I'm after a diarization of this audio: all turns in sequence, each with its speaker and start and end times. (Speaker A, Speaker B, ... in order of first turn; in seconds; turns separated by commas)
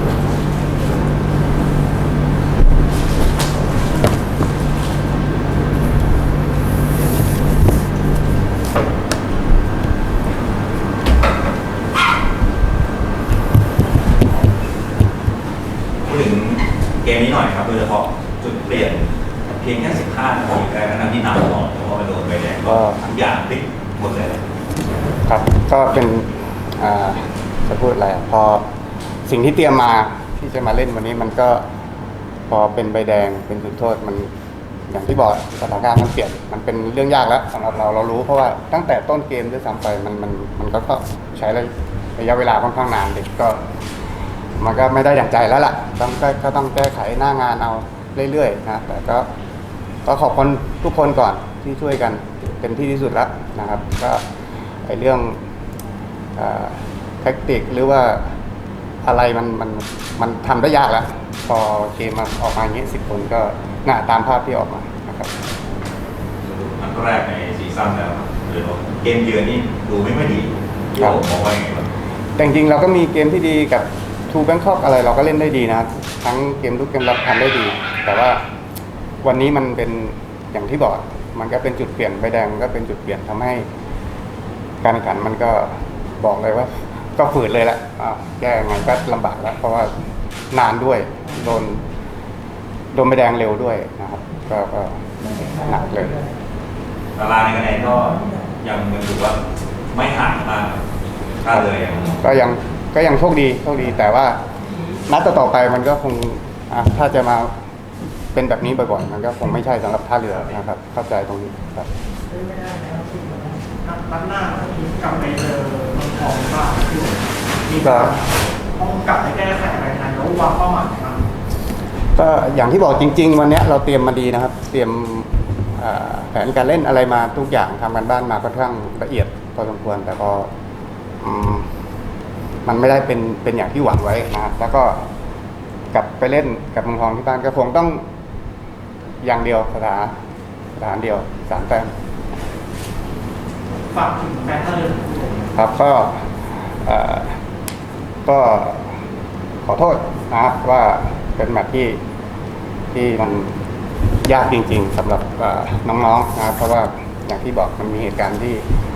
Speaker A: 16.1-24.4, Speaker B: 22.6-23.1, Speaker B: 25.3-28.6, Speaker B: 29.3-31.6, Speaker B: 32.5-34.3, Speaker B: 34.9-43.6, Speaker B: 44.6-49.3, Speaker B: 50.0-54.2, Speaker B: 54.9-55.4, Speaker B: 56.4-58.2, Speaker B: 59.0-65.3, Speaker A: 66.5-71.9, Speaker B: 72.4-78.4, Speaker B: 79.2-83.7, Speaker B: 84.8-90.0, Speaker B: 90.5-91.9, Speaker B: 92.9-96.2, Speaker A: 97.2-99.4, Speaker A: 99.9-100.8, Speaker A: 101.4-102.2, Speaker B: 102.2-104.4, Speaker B: 105.1-107.5, Speaker B: 108.3-111.9, Speaker C: 113.7-121.3, Speaker B: 117.8-118.2, Speaker B: 122.2-130.5, Speaker B: 131.2-131.7, Speaker B: 132.7-135.1, Speaker B: 135.9-138.0, Speaker B: 139.2-140.1, Speaker B: 140.8-141.9, Speaker C: 143.8-145.5, Speaker B: 145.6-147.4, Speaker B: 148.3-149.0, Speaker B: 149.7-152.0, Speaker B: 152.9-153.6, Speaker B: 154.2-158.7